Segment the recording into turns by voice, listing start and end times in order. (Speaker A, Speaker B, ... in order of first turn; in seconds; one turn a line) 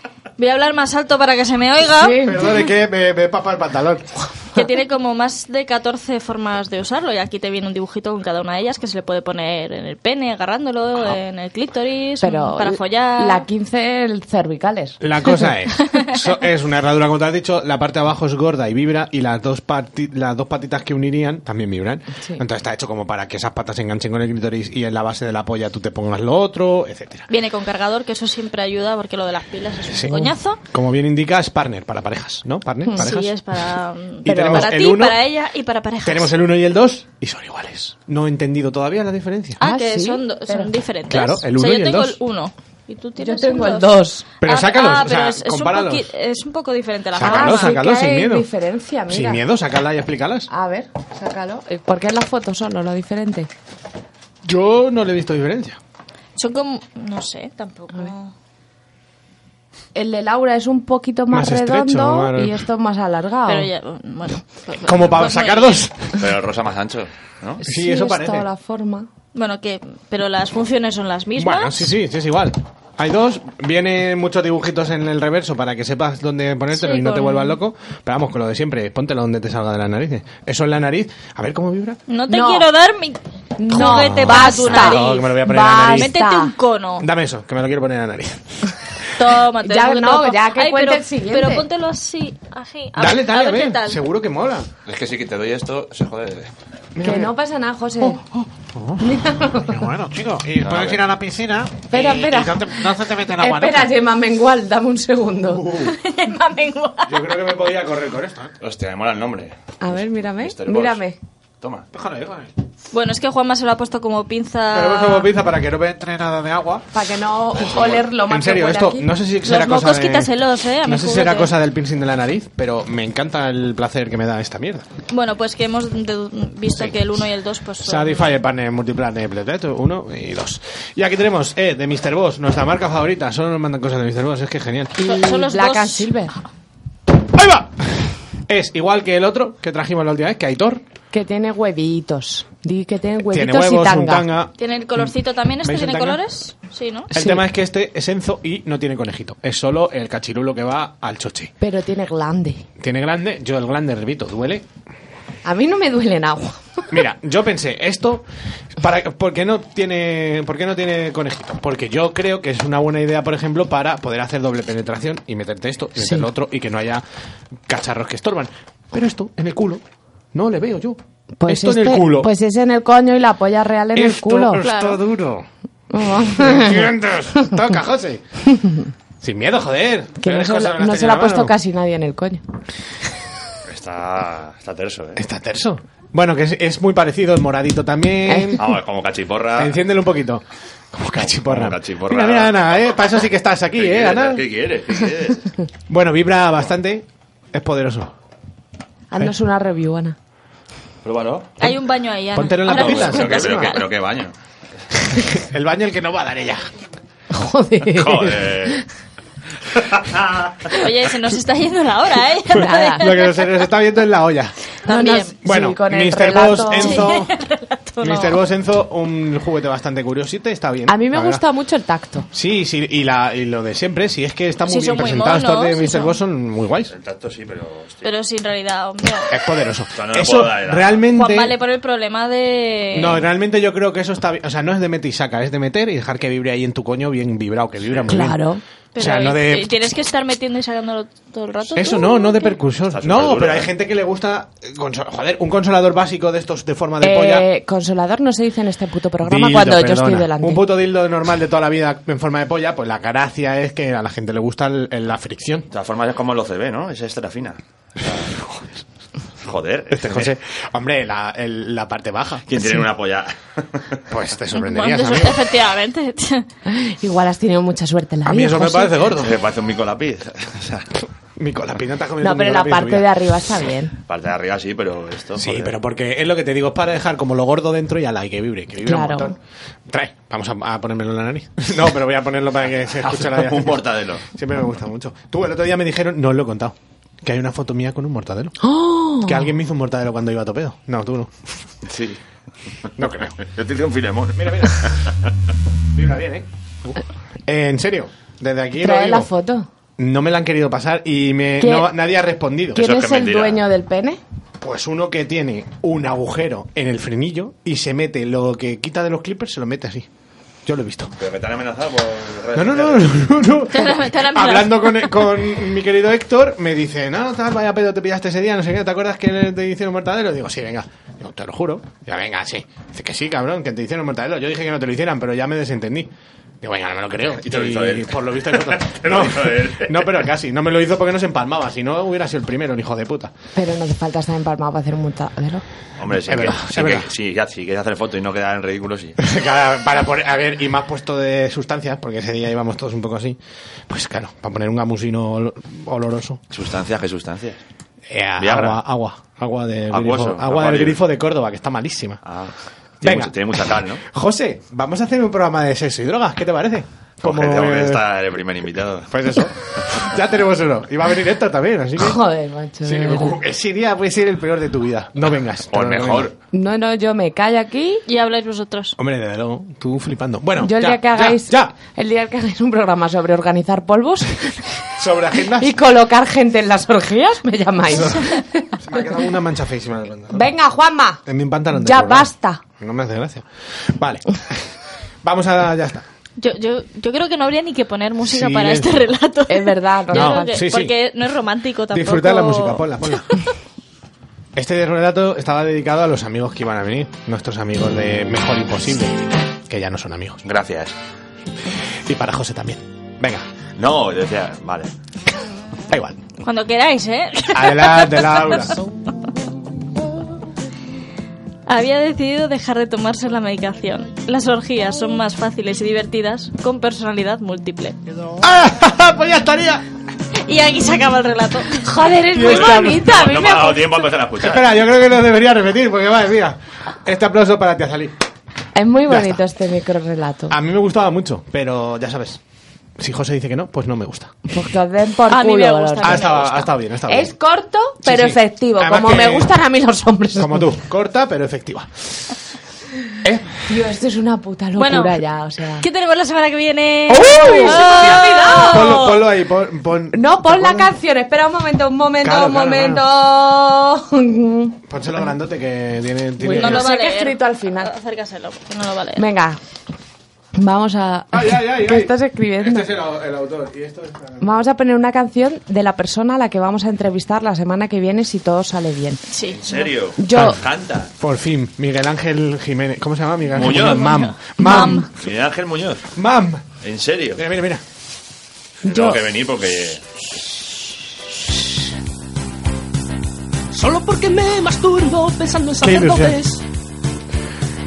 Speaker A: 0.4-2.2
Speaker B: 2.0-2.5
Speaker C: 2.2-4.3
Speaker A: 4.5-13.4
Speaker B: 12.2-15.4
Speaker C: 15.0-27.3
Speaker A: 27.3-30.6
Speaker C: 29.9-33.3
Speaker A: 33.0-36.3
Speaker C: 34.2-35.2
Speaker B: 34.3-34.7
Speaker C: 36.0-39.6
Speaker A: 39.6-47.8
Speaker B: 39.6-40.7
Speaker C: 41.1-42.2
Speaker B: 43.2-44.3
Speaker C: 44.4-46.1
Speaker C: 47.1-48.5
Speaker B: 47.2-49.4
Speaker C: 49.1-50.5
Speaker B: 50.5-53.5
Speaker C: 54.5-55.8
Speaker A: 56.4-58.3
Speaker B: 60.0-63.7
Speaker C: 61.3-62.6
Speaker A: 63.5-65.9
Speaker C: 64.8-66.1
Speaker D: 66.2-67.6
Speaker B: 67.6-69.1
Speaker C: 67.6-68.5
Speaker A: 69.3-71.9
Speaker C: 71.4-82.0
Speaker A: 76.8-77.6
Speaker A: 82.1-87.1
Speaker B: 82.3-82.7
Speaker B: 83.6-86.5
Speaker C: 83.7-86.1
Speaker C: 87.0-88.9
Speaker A: 89.2-94.0
Speaker B: 89.6-91.7
Speaker C: 93.0-94.7
Speaker D: 94.9-96.5
Speaker C: 97.0-97.3
Speaker B: 97.0-98.2
Speaker C: 98.0-103.9
Speaker B: 99.0-99.8
Speaker D: 100.6-101.0
Speaker B: 101.9-106.3
Speaker C: 105.5-106.0
Speaker A: 105.9-107.1
Speaker C: 107.1-108.5
Speaker D: 108.6-111.0
Speaker B: 109.8-111.2
Speaker D: 111.6-111.9
Speaker C: 111.9-112.5
Speaker A: 112.9-115.3
Speaker C: 114.7-117.0
Speaker B: 116.9-119.1
Speaker C: 117.5-124.9
Speaker A: 119.4-121.5
Speaker A: 125.1-128.3
Speaker C: 127.8-135.0
Speaker B: 135.0-136.4
Speaker A: 135.0-136.1
Speaker C: 137.3-140.8
Speaker B: 141.1-144.3
Speaker C: 143.3-146.2
Speaker A: 144.6-147.1
Speaker C: 147.1-151.5
Speaker B: 147.1-147.4
Speaker B: 151.6-152.6
Speaker C: 152.8-154.6
Speaker B: 155.4-157.0
Speaker C: 156.9-158.2
Speaker C: 158.8-167.0
Speaker B: 166.0-166.3
Speaker C: 167.7-169.8
Speaker C: 170.3-172.3
Speaker B: 171.4-174.6
Speaker C: 173.9-175.5
Speaker A: 174.6-175.0
Speaker B: 175.9-176.9
Speaker C: 176.2-178.2
Speaker B: 178.6-178.9
Speaker C: 179.2-181.5
Speaker B: 180.2-182.4
Speaker D: 183.7-185.2
Speaker C: 185.2-188.7
Speaker B: 188.3-188.6
Speaker D: 188.6-189.8
Speaker C: 189.6-194.5
Speaker D: 191.2-192.6
Speaker D: 193.8-195.5
Speaker C: 195.9-198.1
Speaker B: 199.1-200.2
Speaker D: 201.0-201.6
Speaker A: 201.6-203.8
Speaker C: 202.3-203.8
Speaker D: 202.7-204.3
Speaker C: 205.2-206.7
Speaker B: 207.3-208.8
Speaker D: 207.9-208.8
Speaker D: 209.7-210.8
Speaker A: 210.7-213.4
Speaker C: 212.5-214.6
Speaker B: 212.6-213.2
Speaker A: 214.8-215.3
Speaker B: 214.9-217.1
Speaker C: 215.4-217.3
Speaker A: 216.7-218.4
Speaker C: 218.0-221.4
Speaker B: 220.9-222.3
Speaker C: 222.3-226.9
Speaker A: 224.7-226.1
Speaker D: 226.9-228.1
Speaker A: 228.0-229.3
Speaker C: 229.3-231.6
Speaker D: 229.9-231.0
Speaker A: 231.1-233.2
Speaker C: 232.9-238.4
Speaker B: 238.1-238.6
Speaker A: 238.9-242.4
Speaker C: 238.9-239.8
Speaker C: 241.8-247.5
Speaker D: 242.9-243.7
Speaker B: 247.0-250.7
Speaker C: 249.2-255.7
Speaker D: 255.7-258.3
Speaker D: 259.4-260.3
Speaker C: 259.9-262.8
Speaker D: 262.5-264.0
Speaker C: 264.1-265.4
Speaker A: 264.6-266.4
Speaker B: 266.7-269.1
Speaker C: 268.2-269.4
Speaker D: 269.2-270.9
Speaker C: 271.4-273.1
Speaker B: 272.2-273.9
Speaker D: 274.1-275.7
Speaker C: 275.4-288.6
Speaker B: 278.8-279.4
Speaker D: 282.9-284.2
Speaker B: 288.6-289.5
Speaker C: 289.2-291.4
Speaker D: 291.9-292.2
Speaker C: 293.0-293.4
Speaker D: 293.4-295.1
Speaker C: 294.4-294.9
Speaker C: 295.9-299.3
Speaker B: 298.8-299.7
Speaker C: 300.0-302.8
Speaker B: 301.6-301.9
Speaker B: 302.7-304.2
Speaker D: 302.8-303.6
Speaker C: 304.6-310.1
Speaker C: 310.7-311.1
Speaker D: 311.2-313.4
Speaker C: 312.6-333.3
Speaker A: 313.7-315.1
Speaker D: 327.4-330.2
Speaker B: 333.6-335.6
Speaker D: 336.0-339.2
Speaker C: 336.1-337.1
Speaker C: 339.2-346.4
Speaker D: 346.5-347.6
Speaker C: 348.1-352.2
Speaker D: 348.4-348.8
Speaker D: 349.9-351.0
Speaker D: 352.2-354.0
Speaker C: 353.0-358.0
Speaker D: 357.2-359.2
Speaker C: 359.1-362.2
Speaker B: 362.0-363.4
Speaker C: 362.8-366.3
Speaker D: 365.7-366.4
Speaker B: 366.5-368.0
Speaker A: 368.1-369.0
Speaker C: 369.0-371.7
Speaker B: 370.6-374.5
Speaker C: 374.9-375.8
Speaker B: 375.6-379.0
Speaker C: 377.9-380.5
Speaker B: 380.3-382.6
Speaker C: 381.3-386.1
Speaker A: 386.4-393.2
Speaker C: 388.2-389.1
Speaker B: 389.5-390.6
Speaker C: 390.1-390.9
Speaker C: 391.9-393.3
Speaker C: 394.6-400.4
Speaker D: 400.4-400.9
Speaker C: 402.1-403.4
Speaker D: 403.8-404.9
Speaker C: 405.9-406.2
Speaker A: 406.4-408.8
Speaker C: 407.5-408.8
Speaker A: 411.7-418.0
Speaker C: 418.4-419.8
Speaker A: 420.4-422.2
Speaker B: 421.9-424.0
Speaker C: 422.3-423.1
Speaker D: 422.5-424.7
Speaker C: 424.4-428.1
Speaker B: 428.7-430.6
Speaker C: 429.1-429.4
Speaker C: 430.5-432.4
Speaker C: 433.0-434.3
Speaker B: 434.5-436.3
Speaker A: 435.3-436.7
Speaker C: 436.0-437.3
Speaker B: 437.1-440.7
Speaker C: 438.0-439.5
Speaker C: 440.4-442.3
Speaker C: 443.2-443.5
Speaker B: 443.7-445.9
Speaker A: 444.8-445.2
Speaker A: 445.8-449.2
Speaker C: 447.1-450.9
Speaker B: 447.1-449.0
Speaker B: 450.1-454.8
Speaker C: 452.2-453.1
Speaker C: 454.9-456.9
Speaker B: 456.4-457.9
Speaker A: 456.5-459.2
Speaker B: 459.2-459.6
Speaker B: 460.6-462.9
Speaker C: 461.3-464.6
Speaker B: 464.4-469.2
Speaker A: 469.3-469.9
Speaker D: 469.5-471.1
Speaker B: 470.2-470.6
Speaker C: 470.3-470.6
Speaker C: 471.2-475.1
Speaker D: 473.6-474.0
Speaker A: 473.6-475.1
Speaker B: 474.6-475.0
Speaker D: 475.1-476.0
Speaker C: 476.1-476.7
Speaker D: 476.8-477.4
Speaker C: 477.4-477.8
Speaker D: 478.8-480.0
Speaker B: 478.9-479.2
Speaker E: 483.7-486.6
Speaker C: 485.8-486.4